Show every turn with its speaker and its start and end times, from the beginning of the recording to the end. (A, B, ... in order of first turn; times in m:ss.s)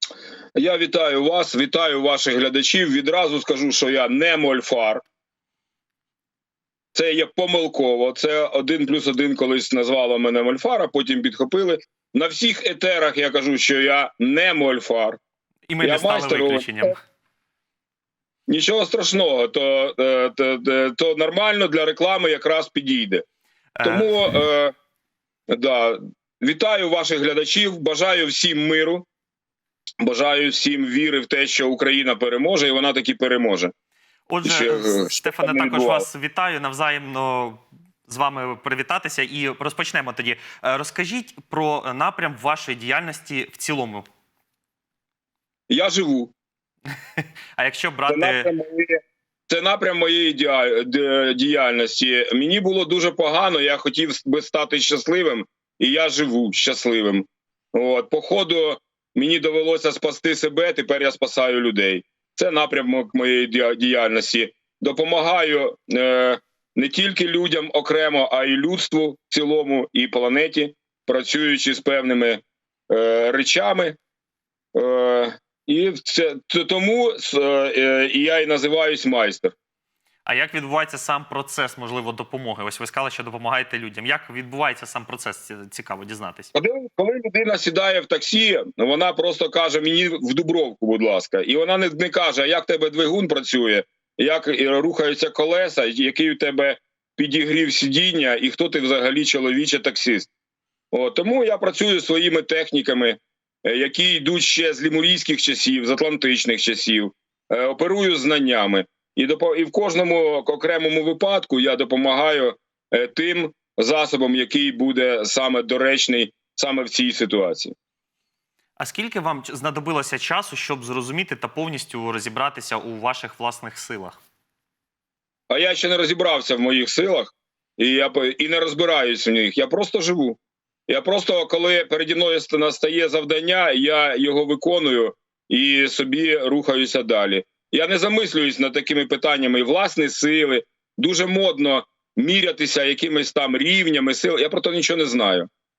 0:00.6-0:05.0 A
0:06.9-0:15.2 A
0:15.7-0:17.0 B
0:15.8-0:16.9 A
0:18.5-0:23.2 A
0:23.8-0:24.1 B
0:23.8-0:24.7 A
0:25.5-0:29.0 A
0:30.0-0:33.7 A
0:34.3-0:44.0 B
0:34.4-0:36.0 A
0:45.7-0:46.3 A
0:47.2-0:48.5 B
0:48.1-1:14.0 A
1:14.7-1:19.5 A
1:20.2-1:26.5 B
1:26.5-1:40.3 A
1:40.9-1:57.7 A
1:58.8-2:04.2 B
2:05.5-2:25.5 A